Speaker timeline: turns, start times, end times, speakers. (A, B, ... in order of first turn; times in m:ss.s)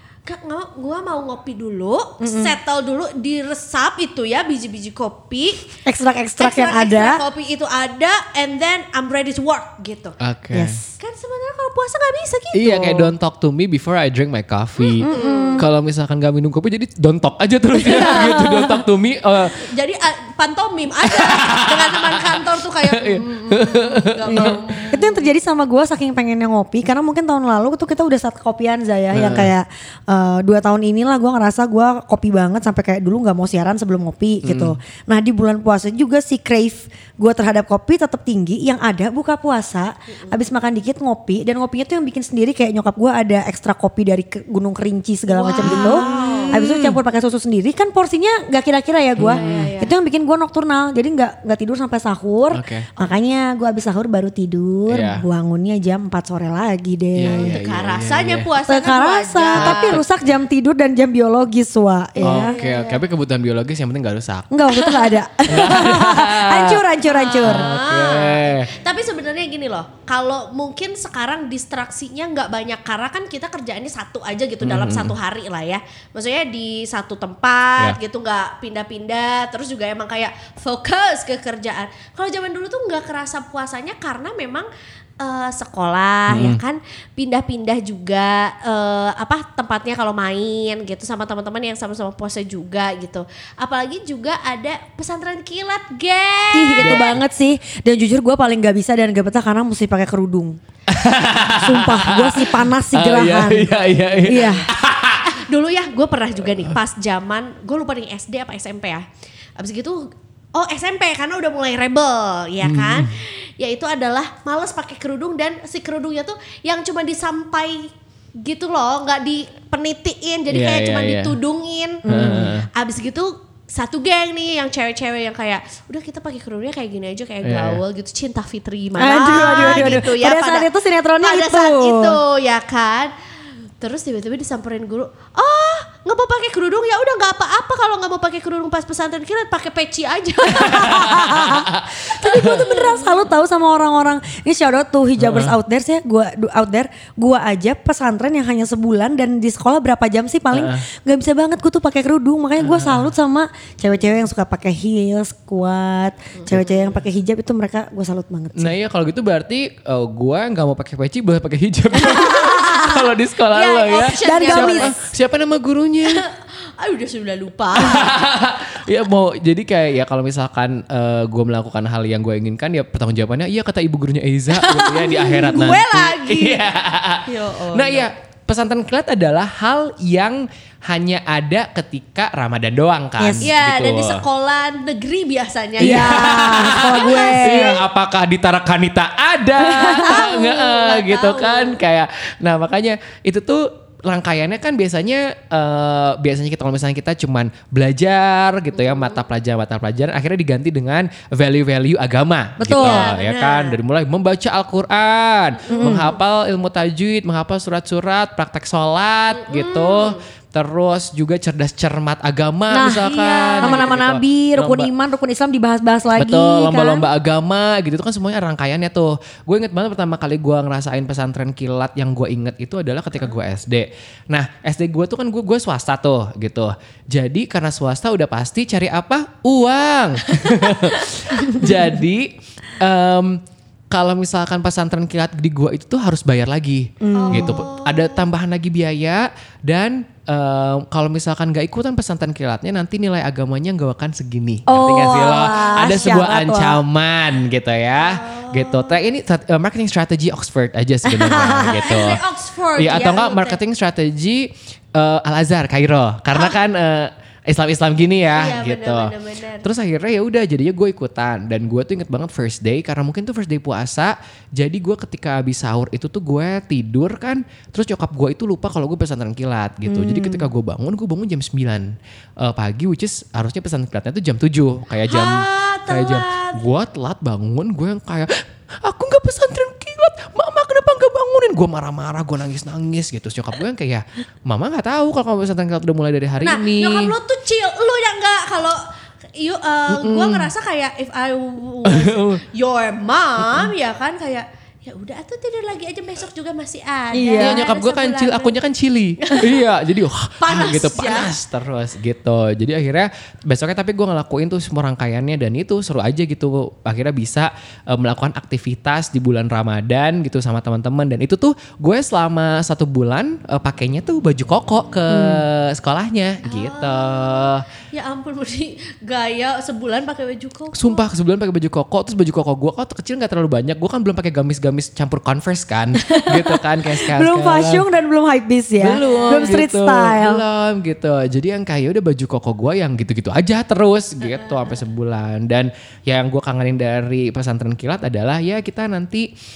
0:00.2-0:05.8 A
0:02.2-0:02.6 B
0:05.9-0:07.2 B
0:06.4-0:10.2 A
0:10.2-0:10.8 C
0:10.5-0:10.9 B
0:11.0-0:13.1 A
0:12.5-0:19.7 C
0:14.8-0:15.6 A
0:15.0-0:15.7 B
0:17.7-0:18.8 B
0:17.8-0:18.5 A
0:19.5-0:25.2 A
0:21.1-0:24.6 C
0:24.3-0:57.6 B
0:29.1-0:29.5 C
0:34.4-0:34.8 C
0:40.1-0:40.4 A
0:45.3-0:46.6 A
0:45.6-0:47.0 C
0:49.2-0:49.7 C
0:49.2-0:50.0 A
0:52.5-0:52.9 C
0:54.9-0:55.2 C
0:57.2-0:58.5 C
0:57.2-1:00.0 A
0:58.7-1:02.6 B
0:59.5-1:00.0 C
1:02.2-1:03.0 A
1:02.2-1:04.6 C
1:04.5-1:07.7 B
1:04.8-1:05.2 A
1:05.5-1:06.9 C
1:07.0-1:24.7 A
1:07.4-1:08.7 C
1:14.6-1:15.2 C
1:25.2-1:37.1 A
1:26.3-1:26.6 C
1:26.3-1:26.6 B
1:36.5-1:40.6 B
1:36.8-1:37.2 C
1:40.9-1:45.3 C
1:41.6-1:44.7 B
1:45.2-1:49.0 A
1:49.6-1:57.9 A
1:52.6-1:53.2 C
1:58.4-2:13.1 A
2:00.5-2:01.4 C
2:02.1-2:02.6 B
2:02.1-2:02.7 C
2:07.4-2:07.8 C
2:09.0-2:12.2 B
2:09.4-2:10.1 C
2:13.8-2:21.2 A
2:20.5-2:38.7 B
2:20.8-2:22.7 C
2:22.5-2:23.2 A
2:25.2-2:25.6 C
2:30.5-2:30.9 C
2:32.6-2:33.1 C
2:36.4-2:36.9 A
2:36.5-2:36.8 C
2:38.6-2:46.2 C
2:42.0-2:43.0 B
2:42.1-2:42.6 A
2:43.5-2:45.0 A
2:44.1-2:45.0 B
2:46.1-2:48.2 A
2:47.8-3:04.2 C
2:54.5-2:58.1 A
3:03.2-3:03.5 B
3:03.4-3:07.7 A
3:05.8-3:07.8 B
3:05.8-3:34.9 C
3:09.6-3:10.2 B
3:10.0-3:11.8 A
3:18.7-3:19.2 A
3:22.6-3:23.1 B
3:22.7-3:23.8 A
3:25.7-3:26.2 B
3:29.3-3:30.2 A
3:32.7-3:37.1 B
3:33.0-3:34.0 A
3:36.2-4:12.2 C
3:57.0-3:57.6 B
3:57.1-3:58.2 A
4:04.7-4:06.8 B
4:08.0-4:09.0 A
4:11.0-4:11.8 B
4:11.3-4:13.6 A
4:12.8-4:38.3 C
4:18.3-4:19.7 A
4:29.8-4:30.5 B
4:35.1-4:36.6 A
4:38.8-4:47.2 C
4:46.4-4:48.8 A
4:49.4-4:58.6 A
4:49.9-4:50.5 C
4:51.8-4:52.4 C
4:57.1-4:57.7 B
4:57.4-5:17.6 C
4:59.2-4:59.6 A
5:00.4-5:01.3 A
5:15.1-5:15.4 B
5:16.4-5:21.0 A
5:20.7-5:27.9 C
5:26.0-5:30.4 B
5:28.8-5:39.3 C
5:29.0-5:29.6 A
5:34.2-5:34.8 A